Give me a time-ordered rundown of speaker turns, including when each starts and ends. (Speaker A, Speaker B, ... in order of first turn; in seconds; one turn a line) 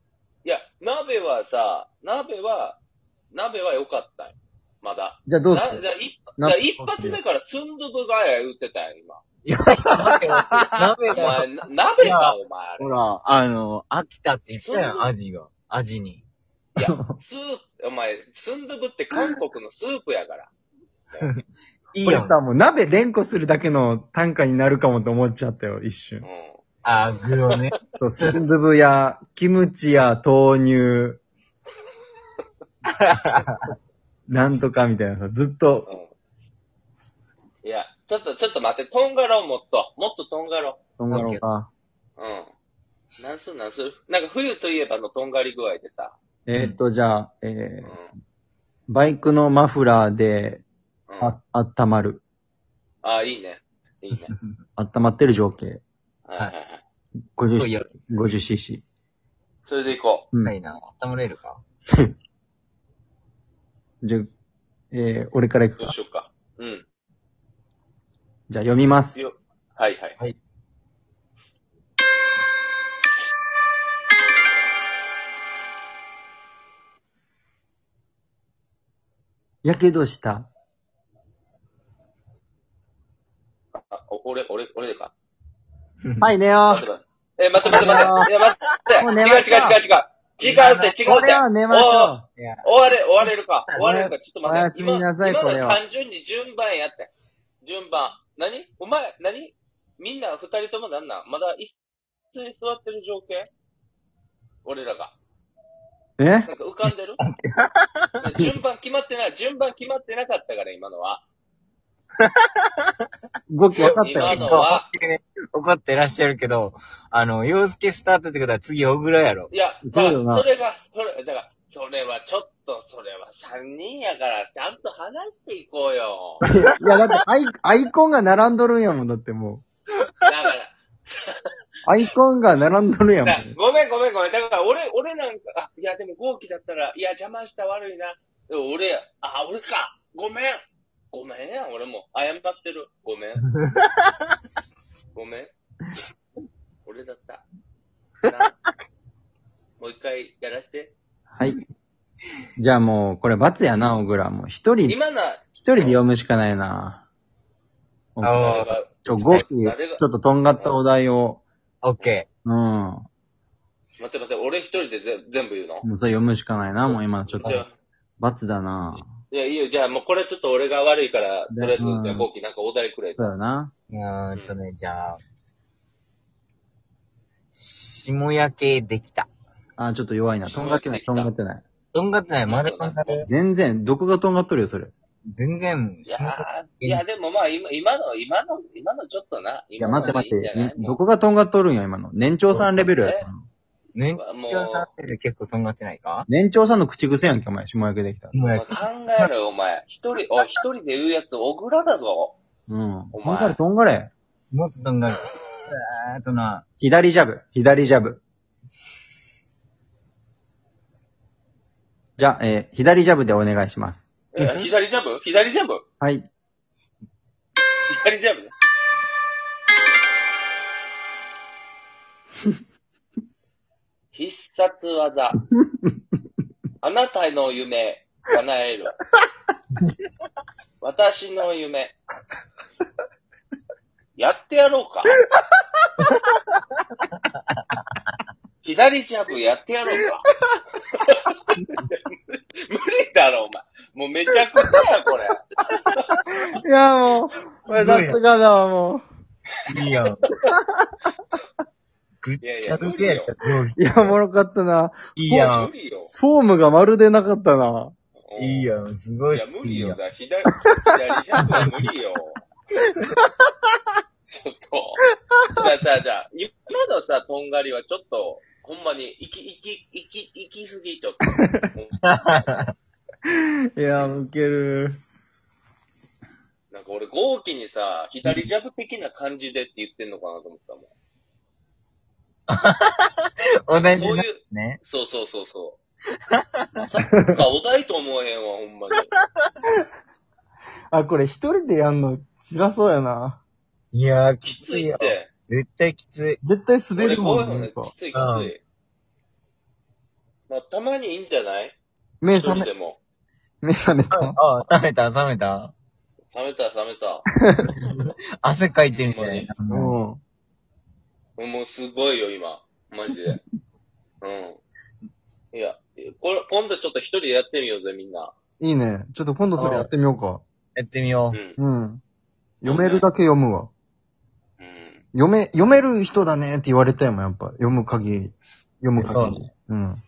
Speaker A: 0.5-2.8
Speaker A: 3.3-9.2
Speaker B: 5.3-5.8
Speaker B: 6.4-7.2
Speaker C: 9.4-11.5
Speaker B: 10.3-10.9
Speaker A: 11.1-12.9
Speaker C: 12.0-16.2
Speaker A: 14.6-15.1
Speaker A: 16.8-20.5
Speaker B: 16.8-17.2
Speaker C: 21.9-22.4
Speaker B: 22.0-26.3
Speaker A: 26.2-26.6
Speaker C: 26.8-28.4
Speaker B: 27.9-31.2
Speaker C: 33.0-33.6
Speaker B: 34.3-35.9
Speaker A: 37.6-40.8
Speaker B: 41.0-41.7
Speaker C: 41.1-41.4
Speaker A: 42.2-42.5
Speaker A: 43.2-46.1
Speaker B: 46.5-48.0
Speaker A: 47.8-48.1
Speaker B: 48.9-50.6
Speaker A: 51.1-51.4
Speaker B: 51.2-52.2
Speaker A: 53.0-54.3
Speaker B: 54.8-55.8
Speaker A: 56.3-56.8
Speaker B: 57.4-58.8
Speaker C: 57.6-57.9
Speaker A: 59.7-60.3
Speaker C: 60.4-61.6
Speaker B: 64.0-64.3
Speaker B: 64.9-65.9
Speaker A: 65.8-66.8
Speaker B: 68.5-69.2
Speaker A: 69.2-70.2
Speaker B: 79.6-80.5
Speaker A: 83.8-85.1
Speaker B: 86.2-86.9
Speaker A: 86.7-97.1
Speaker B: 87.7-88.3
Speaker C: 87.7-89.0
Speaker B: 89.0-89.8
Speaker C: 90.5-91.0
Speaker B: 91.0-92.3
Speaker C: 92.4-92.7
Speaker C: 93.2-94.0
Speaker B: 93.8-95.8
Speaker A: 97.6-101.8
Speaker A: 102.3-103.5
Speaker A: 104.7-105.2
Speaker B: 106.2-106.5
Speaker A: 106.5-107.2
Speaker C: 107.2-108.2
Speaker A: 108.2-111.2
Speaker C: 112.2-112.7
Speaker B: 113.5-114.5
Speaker A: 113.8-114.9
Speaker C: 114.2-119.5
Speaker A: 119.5-126.4
Speaker B: 119.9-120.5
Speaker B: 126.4-129.6
Speaker A: 130.2-131.4
Speaker B: 131.9-133.6
Speaker A: 133.2-140.6
Speaker A: 141.1-143.5
Speaker C: 143.6-144.0
Speaker A: 145.2-145.5
Speaker A: 146.9-147.4
Speaker A: 148.2-148.6
Speaker A: 149.8-150.9
Speaker B: 151.3-151.6
Speaker B: 152.6-155.0
Speaker A: 154.8-156.0
Speaker B: 155.5-157.1
Speaker B: 158.2-161.4
Speaker C: 158.2-159.4
Speaker A: 158.4-160.8
Speaker C: 161.8-162.3
Speaker B: 162.5-163.1
Speaker A: 164.0-165.9
Speaker B: 165.8-167.7
Speaker A: 166.7-167.7
Speaker B: 168.2-169.1
Speaker A: 169.3-173.2
Speaker B: 171.5-172.3
Speaker B: 173.2-173.7
Speaker C: 173.9-175.2
Speaker C: 177.5-179.3
Speaker B: 179.8-181.7
Speaker A: 180.5-181.3
Speaker C: 181.9-183.3
Speaker A: 182.5-183.2
Speaker B: 183.2-184.9
Speaker C: 185.3-187.0
Speaker A: 186.1-191.0
Speaker B: 189.8-193.4
Speaker C: 192.5-192.9
Speaker A: 193.0-193.3
Speaker C: 193.9-196.3
Speaker A: 194.2-194.9
Speaker B: 196.3-198.3
Speaker C: 198.3-199.3
Speaker A: 198.5-202.3
Speaker B: 202.7-204.1
Speaker A: 203.1-203.6
Speaker C: 204.5-206.7
Speaker B: 206.8-208.2
Speaker B: 212.2-214.7
Speaker A: 214.3-215.8
Speaker B: 216.0-216.3
Speaker A: 217.9-218.5
Speaker A: 224.1-225.4
Speaker A: 226.8-228.9
Speaker A: 230.8-232.0
Speaker A: 234.2-235.2
Speaker A: 238.6-240.3
Speaker A: 241.8-246.2
Speaker B: 246.3-249.0
Speaker C: 247.7-248.2
Speaker C: 249.7-250.2
Speaker B: 250.5-250.9
Speaker C: 252.2-254.1
Speaker A: 252.4-253.3
Speaker B: 253.8-255.5
Speaker C: 255.2-255.7
Speaker A: 255.3-256.1
Speaker B: 256.1-257.9
Speaker A: 258.2-258.7
Speaker C: 258.4-260.0
Speaker A: 259.3-262.5
Speaker A: 264.3-265.0
Speaker A: 265.5-272.5
Speaker C: 272.1-272.7
Speaker B: 273.3-275.0
Speaker A: 276.7-280.9
Speaker C: 282.5-284.8
Speaker A: 283.8-285.8
Speaker C: 286.4-286.7
Speaker A: 286.8-289.1
Speaker C: 289.1-289.5
Speaker B: 290.9-293.4
Speaker C: 293.9-296.4
Speaker A: 294.4-295.3
Speaker B: 296.4-297.9
Speaker A: 296.9-298.6
Speaker C: 298.1-298.5
Speaker A: 300.5-301.8
Speaker B: 302.2-302.7
Speaker A: 302.3-303.0
Speaker B: 303.6-304.4
Speaker C: 304.1-305.7
Speaker A: 306.3-307.2
Speaker C: 307.7-309.9
Speaker A: 308.9-309.5
Speaker B: 309.7-310.2
Speaker A: 311.4-313.4
Speaker A: 314.2-314.6
Speaker A: 315.5-318.3
Speaker B: 318.6-320.4
Speaker C: 319.6-319.9
Speaker C: 320.8-321.4
Speaker A: 321.3-321.6
Speaker B: 321.6-322.0
Speaker B: 322.6-323.7
Speaker A: 322.6-323.1
Speaker A: 324.6-325.0
Speaker B: 325.1-330.0
Speaker C: 329.0-329.4